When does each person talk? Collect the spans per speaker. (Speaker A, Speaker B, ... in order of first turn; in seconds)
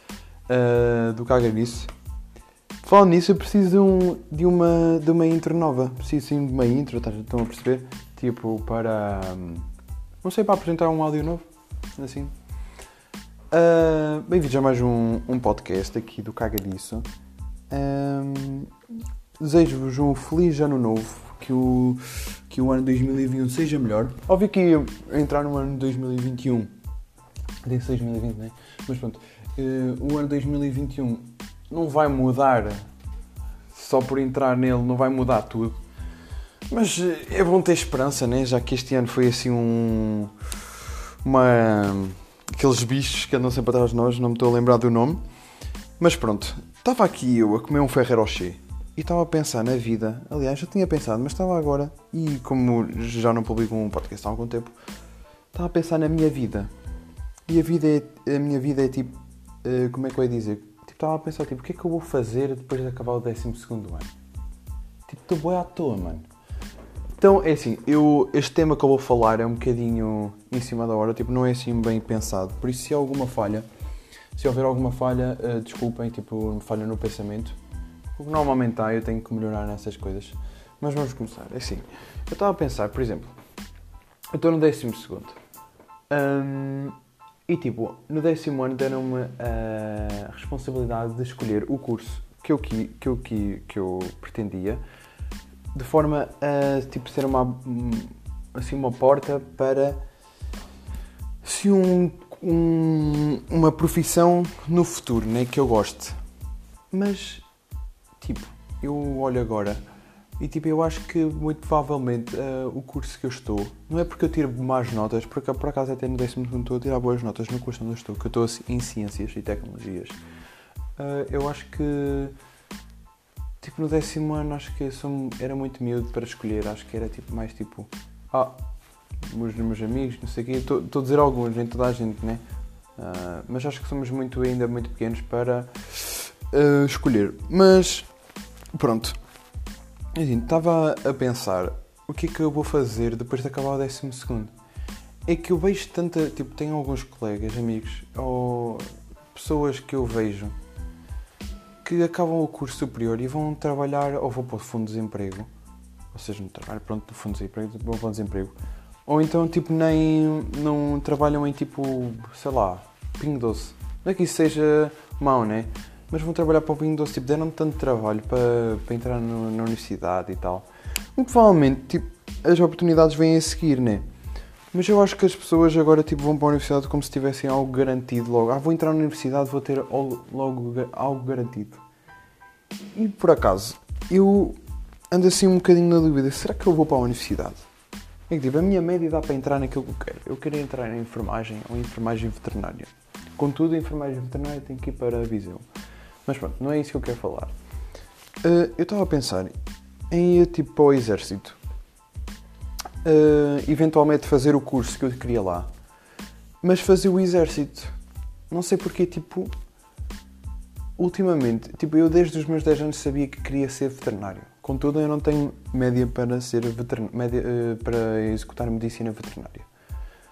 Speaker A: 0.5-1.9, 2.8-9.7, 10.2-11.4, 12.0-12.3, 13.5-17.1, 17.7-18.7, 19.4-26.7, 27.6-32.8, 33.7-35.8, 36.7-40.3, 41.2-45.2, 46.0-54.8, 55.5-56.7, 57.5-64.1, 65.1-66.3, 67.2-73.7, 74.3-77.6, 78.2-83.3, 84.3-85.4, 86.1-87.0, 87.5-94.8, 95.7-100.0, 101.4-106.2, 106.9-107.5, 108.2-109.8, 110.4-120.2, 121.0-122.3, 123.6-128.6, 129.3-132.4, 133.0-138.1, 138.7-139.2, 140.2-144.5, 145.2-150.6, 151.8-155.5, 156.1-158.6, 159.1-174.1, 174.7-181.8, 182.9-184.6, 185.1-187.7, 188.3-195.7, 196.3-197.5, 198.4-199.5, 200.1-201.6, 203.0-205.7, 206.6-207.9, 208.5-209.5, 211.0-219.7